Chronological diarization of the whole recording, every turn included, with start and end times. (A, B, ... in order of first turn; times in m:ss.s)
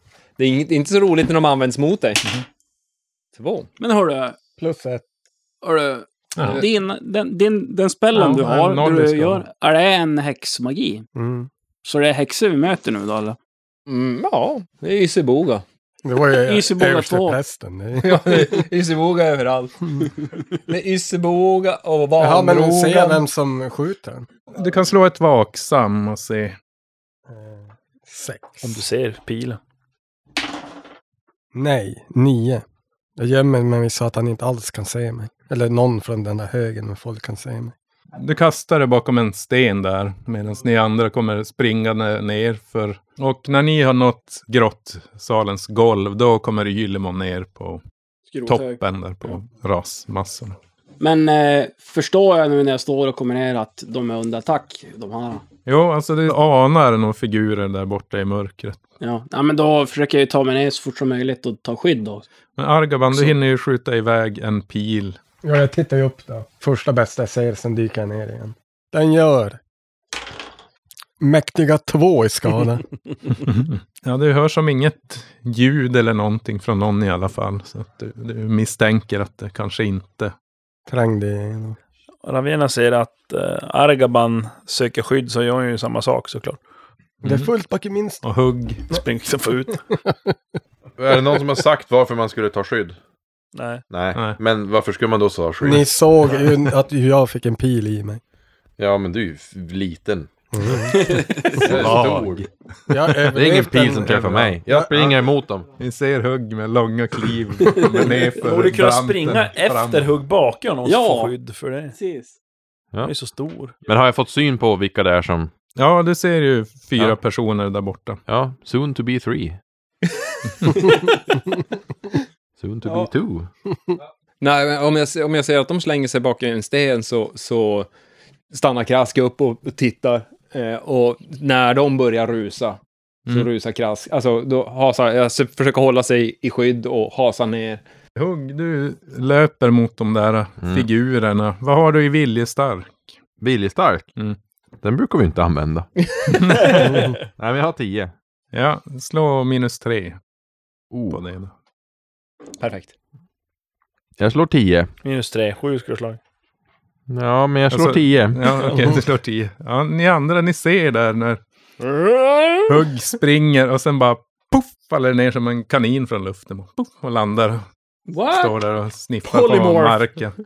0:00.4-0:02.2 A
0:03.3-0:03.7 A
0:03.8-0:04.4 B
0:04.6-0:05.0 C
0:05.6-0:11.1 B
0:06.4-0:06.6 A
0:08.1-0:09.4 D
0:11.1-0:11.5 C
0:11.8-0:13.4 B
0:13.9-0:15.6 A
0:16.0-0:18.6 C
0:16.4-0:17.4 B
0:18.0-0:20.1 A
0:20.7-0:23.2 A
0:22.2-0:24.3 C
0:24.5-0:26.6 D
0:27.3-0:28.8 C
0:28.6-0:29.6 E
0:31.5-0:32.6 C
0:33.2-0:37.7 C
0:38.2-0:47.8 D
0:48.3-0:49.3 B
0:48.4-0:50.6 D
0:51.0-0:55.4 B
0:55.6-0:58.8 D
0:59.0-1:02.2 B
1:02.6-1:05.2 D
1:05.4-1:09.6 C
1:11.2-1:12.8 C
1:13.4-1:20.3 D
1:20.9-1:21.8 C
1:22.2-1:26.6 E
1:27.2-1:27.5 D
1:27.2-1:28.2 C
1:28.2-1:28.9 D
1:28.9-1:29.8 E
1:31.0-1:33.0 F
1:33.5-1:33.8 E
1:33.9-1:35.9 F
1:35.6-1:38.2 C
1:38.8-1:40.3 F
1:40.5-1:42.2 C
1:40.9-1:41.6 B
1:41.6-1:42.4 F
1:41.6-1:43.4 D
1:42.9-1:44.9 C
1:43.3-1:45.7 F
1:44.5-1:45.0 D
1:45.8-1:50.2 D
1:48.1-1:52.0 E
1:50.8-1:51.3 B
1:51.9-1:52.3 B
1:53.0-1:53.7 E
1:53.8-1:55.5 F
1:55.8-1:58.2 D
1:58.3-1:59.6 F
2:00.6-2:01.1 A
2:02.6-2:03.5 F
2:04.4-2:07.9 A
2:08.5-2:17.8 A
2:18.2-2:23.1 D
2:20.6-2:20.9 F
2:23.4-2:24.1 F
2:24.8-2:25.9 F
2:26.3-2:26.9 D
2:27.4-2:28.1 F
2:28.5-2:30.2 D
2:30.9-2:31.2 F
2:31.1-2:31.5 D
2:32.6-2:32.9 A
2:34.2-2:34.9 F
2:35.0-2:36.2 E
2:37.1-2:39.0 F
2:37.7-2:41.4 D
2:41.8-2:42.6 A
2:42.7-2:47.6 D
2:48.1-2:48.6 B
2:48.3-2:50.3 D
2:49.3-2:49.9 B